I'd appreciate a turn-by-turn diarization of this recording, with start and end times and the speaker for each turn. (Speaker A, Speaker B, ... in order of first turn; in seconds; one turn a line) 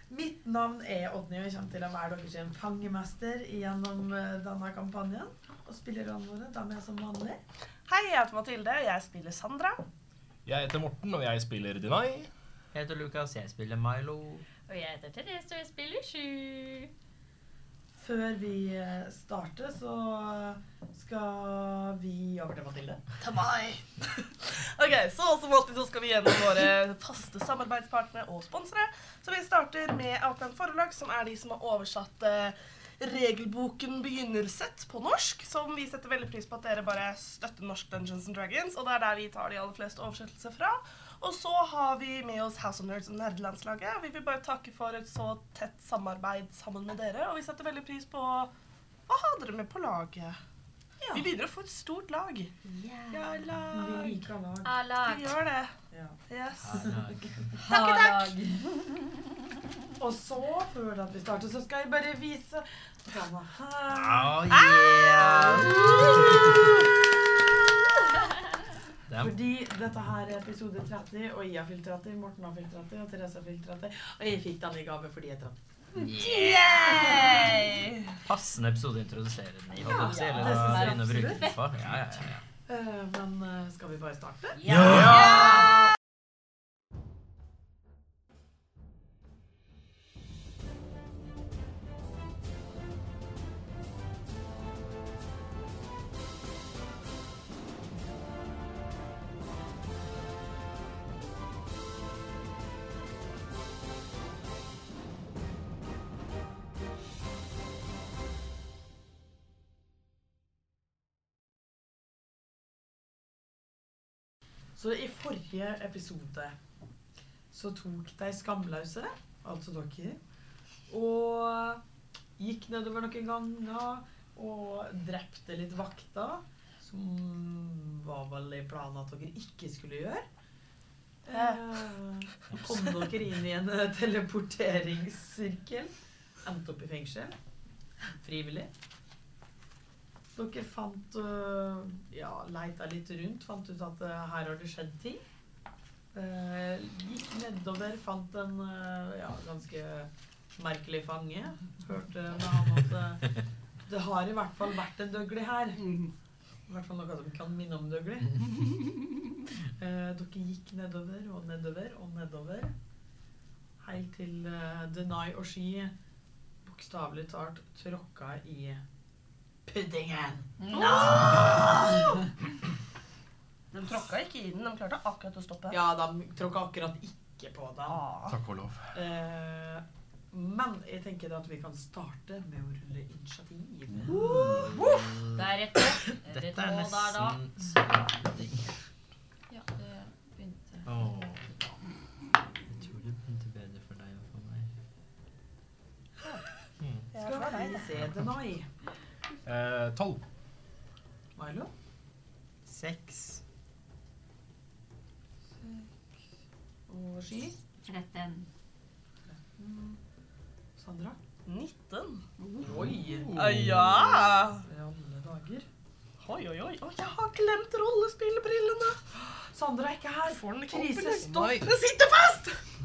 Speaker A: 0.1-7.4
Speaker B: 7.9-9.8
Speaker C: 10.4-12.3
Speaker D: 12.7-14.4
Speaker E: 14.7-16.9
Speaker A: 17.9-23.0
Speaker B: 23.2-48.5
Speaker B: 49.1-50.4
Speaker A: 51.0-51.3
Speaker B: 51.1-52.5
Speaker E: 52.6-53.4
Speaker B: 53.1-54.2
Speaker A: 53.7-54.7
Speaker E: 54.6-55.3
Speaker B: 54.9-55.7
Speaker A: 55.9-56.2
Speaker B: 56.3-57.0
Speaker D: 56.6-57.5
Speaker A: 56.7-57.0
Speaker E: 57.6-59.5
Speaker B: 57.6-58.3
Speaker A: 60.0-64.4
Speaker D: 63.9-66.7
Speaker B: 64.5-66.7
Speaker A: 65.2-66.0
Speaker D: 69.1-69.3
Speaker A: 69.2-75.5
Speaker D: 76.0-77.1
Speaker B: 76.0-78.2
Speaker D: 78.2-82.4
Speaker A: 79.8-81.5
Speaker E: 80.0-81.6
Speaker A: 82.7-84.7
Speaker E: 84.6-85.6
Speaker D: 84.7-85.3
Speaker B: 84.8-85.6
Speaker C: 84.9-85.4
Speaker A: 114.8-116.5
Speaker A: 117.5-120.2
Speaker A: 120.9-121.8
Speaker A: 122.4-130.3
Speaker A: 131.2-135.9
Speaker B: 131.3-131.6
Speaker A: 136.4-137.4
Speaker A: 138.2-138.7
Speaker A: 140.3-145.2
Speaker A: 146.1-156.0
Speaker A: 156.7-158.7
Speaker A: 159.8-162.7
Speaker A: 163.8-165.9
Speaker A: 166.6-168.8
Speaker A: 169.7-171.7
Speaker E: 170.6-171.6
Speaker B: 170.7-172.0
Speaker B: 173.7-175.8
Speaker A: 175.7-178.0
Speaker B: 177.9-178.4
Speaker C: 178.3-178.9
Speaker A: 178.9-184.2
Speaker D: 184.1-185.5
Speaker B: 184.1-185.2
Speaker E: 185.3-187.4
Speaker D: 186.2-188.7
Speaker E: 189.5-190.9
Speaker D: 190.8-191.7
Speaker D: 192.7-194.7
Speaker C: 196.8-197.1
Speaker B: 197.1-197.9
Speaker A: 197.2-198.7
Speaker C: 199.4-200.2
Speaker A: 201.3-201.7
Speaker D: 202.7-203.4
Speaker A: 205.6-205.9
Speaker A: 206.9-207.6
Speaker E: 207.8-208.5
Speaker A: 209.4-210.0
Speaker A: 210.8-211.2
Speaker B: 211.4-214.6
Speaker A: 212.6-213.3
Speaker C: 212.6-214.5
Speaker A: 214.6-215.7
Speaker B: 216.2-219.0
Speaker A: 219.5-221.7
Speaker B: 220.3-222.6
Speaker C: 221.2-221.7